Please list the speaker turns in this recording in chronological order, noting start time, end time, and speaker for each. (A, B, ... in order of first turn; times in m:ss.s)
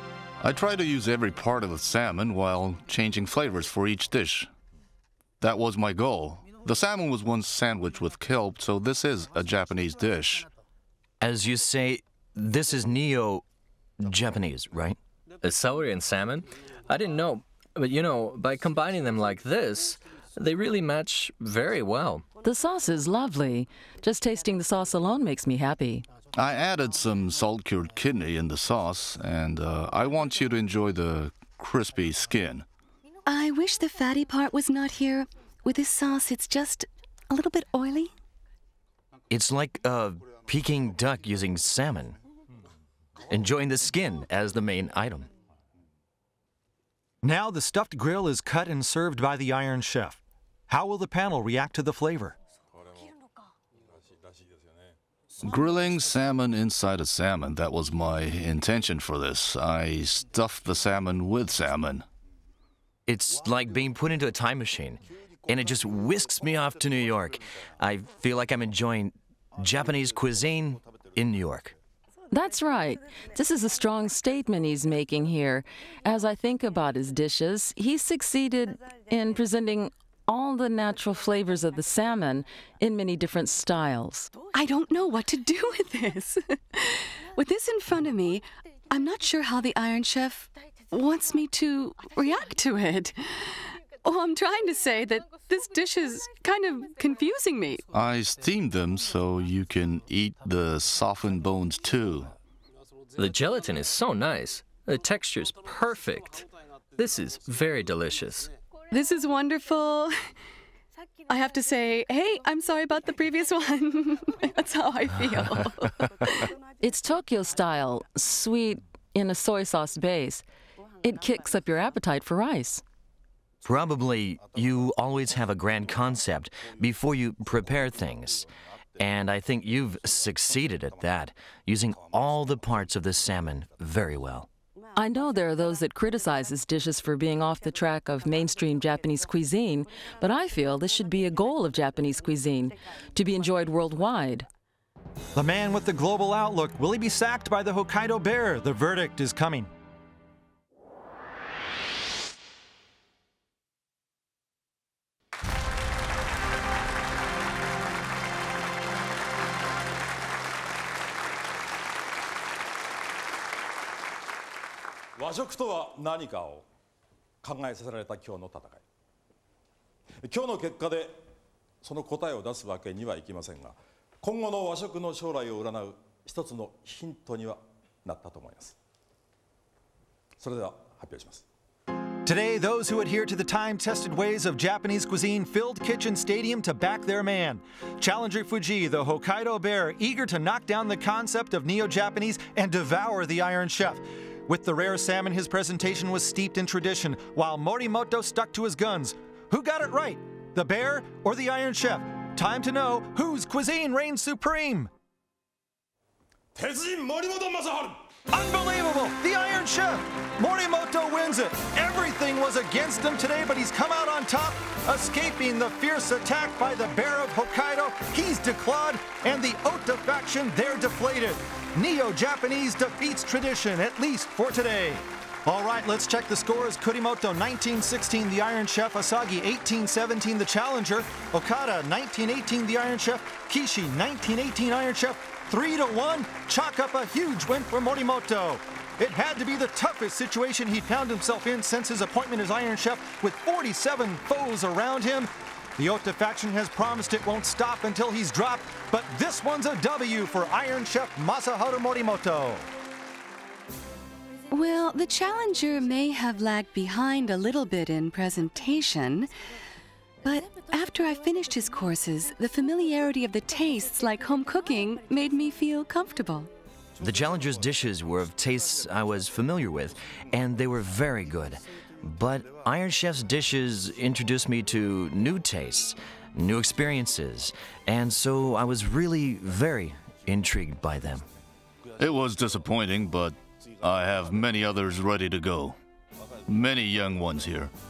0:00.4-0:04.5 A
0:05.4-0:10.5 A
0:11.2-0:13.4 B
0:14.0-0:15.0 B
0:15.4-0:22.2 C
0:22.4-0:26.0 D
0:26.3-0:32.6 A
0:33.2-0:38.1 E
0:39.3-0:42.2 B
0:43.3-0:45.3 B
0:47.2-0:52.4 F
0:52.8-0:53.0 G
0:53.9-0:54.9 G
0:55.4-1:02.0 A
1:03.0-1:11.7 B
1:12.3-1:24.3 D
1:24.5-1:37.8 E
1:37.9-1:42.3 A
1:43.2-1:48.5 C
1:48.9-1:50.1 E
1:51.3-1:56.5 E
1:56.8-2:00.4 D
2:01.0-2:02.8 D
2:03.6-2:14.5 B
2:14.9-2:24.5 D
2:25.3-2:29.7 F
2:45.2-2:46.6 G
2:47.4-2:48.8 G
2:50.2-2:51.2 G
2:51.8-2:58.7 G
3:00.4-3:01.4 G
3:02.2-3:24.9 F
3:26.5-3:28.0 G
3:28.3-4:12.7 F
4:14.5-4:19.3 E
4:20.2-4:26.5 E
4:27.0-4:41.2 B
4:42.0-4:45.8 A
4:46.5-4:47.7 A